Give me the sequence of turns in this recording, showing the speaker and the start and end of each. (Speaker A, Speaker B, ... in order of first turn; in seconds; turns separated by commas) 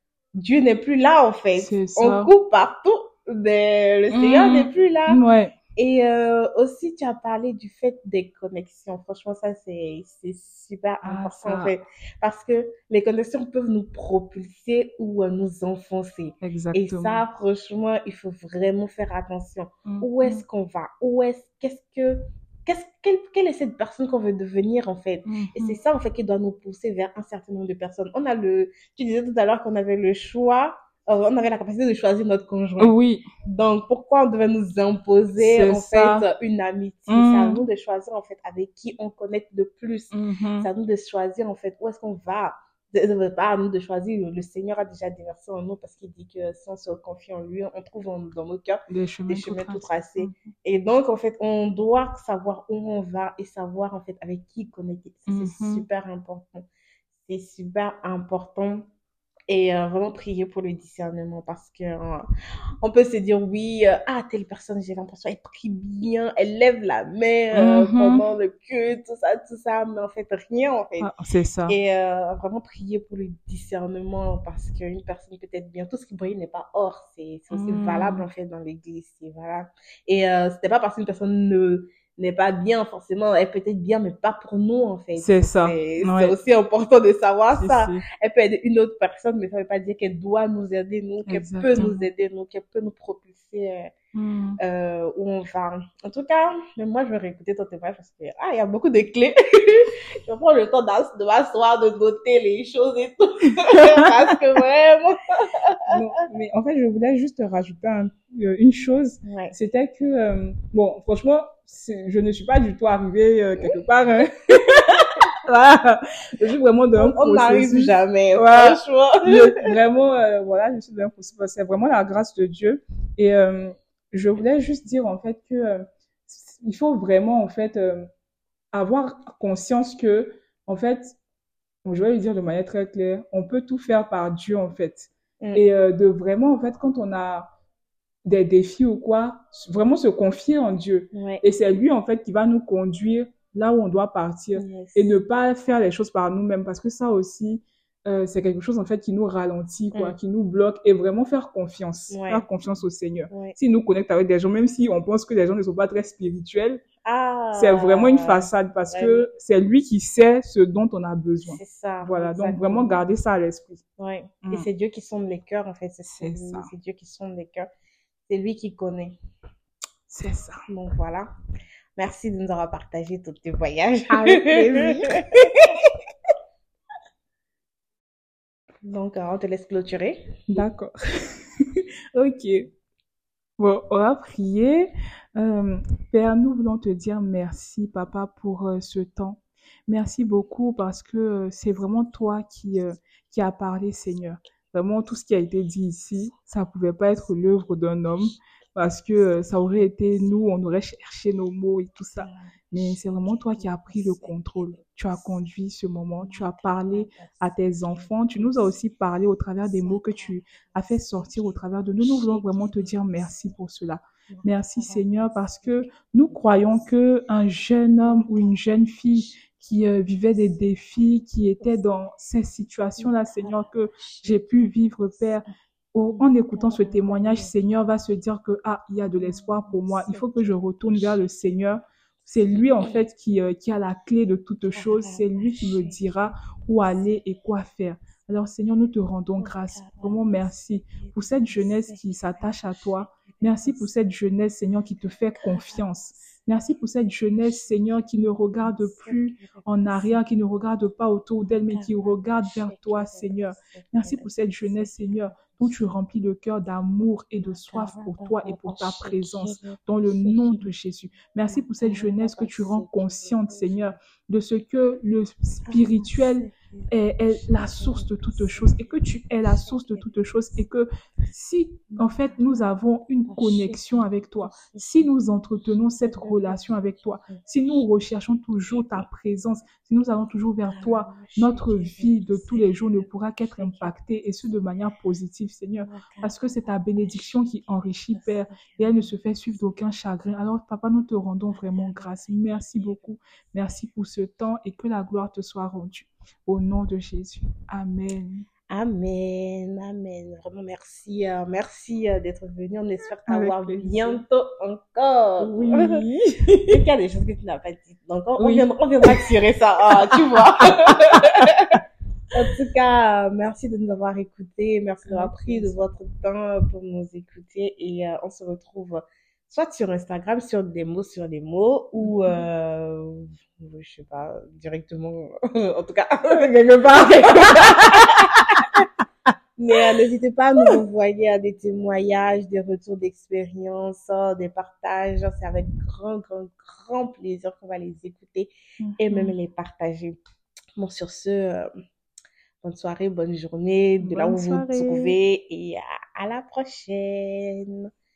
Speaker A: 0.3-5.2, Speaker B: 1.6-2.3, Speaker B: 4.1-5.6, Speaker A: 5.8-56.7, Speaker B: 11.0-11.7, Speaker B: 16.4-17.2, Speaker B: 19.9-20.4, Speaker B: 25.2-25.8, Speaker B: 32.8-33.3, Speaker B: 35.4-36.3, Speaker B: 37.1-37.6, Speaker B: 40.1-40.7, Speaker B: 48.9-50.3, Speaker B: 55.3-55.9, Speaker A: 57.2-58.9, Speaker A: 59.5-62.3, Speaker A: 62.8-71.1, Speaker B: 67.5-68.2, Speaker B: 71.0-71.8, Speaker A: 71.7-93.9, Speaker B: 77.5-78.3, Speaker B: 85.2-86.4, Speaker B: 87.5-88.0, Speaker B: 91.3-92.1, Speaker B: 94.2-94.6, Speaker A: 94.6-105.8, Speaker B: 105.9-128.1, Speaker A: 109.3-109.5, Speaker A: 117.0-119.7, Speaker B: 128.7-131.2, Speaker B: 131.8-137.5, Speaker A: 135.4-135.7, Speaker B: 138.2-156.8, Speaker A: 141.1-141.4, Speaker A: 144.6-145.2, Speaker A: 152.1-152.4, Speaker A: 153.3-153.6, Speaker A: 157.1-159.3, Speaker B: 157.5-163.8, Speaker A: 161.4-163.0, Speaker A: 164.0-167.7, Speaker B: 166.1-166.7, Speaker A: 168.3-169.2, Speaker B: 170.1-170.6, Speaker A: 170.7-171.3, Speaker A: 172.0-175.8, Speaker B: 174.1-175.1, Speaker A: 178.8-180.2, Speaker B: 180.5-180.9, Speaker B: 182.1-182.7, Speaker B: 183.6-298.5, Speaker A: 202.2-204.7, Speaker A: 206.2-208.7, Speaker A: 209.6-213.3, Speaker A: 214.3-216.9, Speaker A: 218.0-219.3, Speaker A: 223.0-223.6, Speaker A: 224.1-224.7, Speaker A: 226.2-227.5, Speaker A: 229.2-231.1, Speaker A: 232.5-233.0, Speaker A: 234.7-235.9, Speaker A: 239.4-242.4, Speaker A: 243.2-243.9, Speaker A: 245.4-245.8, Speaker A: 248.6-250.2, Speaker A: 251.7-255.9, Speaker A: 257.4-260.7, Speaker A: 261.5-263.9, Speaker A: 265.7-270.2, Speaker A: 271.9-272.6, Speaker A: 273.3-275.1, Speaker A: 276.1-276.6, Speaker A: 278.7-279.0, Speaker A: 280.6-283.9, Speaker A: 285.8-286.4, Speaker A: 288.1-289.1, Speaker A: 291.7-292.8, Speaker A: 298.7-306.0, Speaker B: 303.3-304.2, Speaker B: 305.4-306.6, Speaker A: 306.6-311.8, Speaker B: 308.4-309.2, Speaker B: 310.1-311.5, Speaker A: 312.3-328.4, Speaker B: 315.0-315.8, Speaker B: 322.0-322.5, Speaker B: 326.4-328.6, Speaker A: 329.6-340.2, Speaker B: 338.8-339.4, Speaker A: 340.8-341.7, Speaker A: 342.6-347.9, Speaker B: 344.0-345.1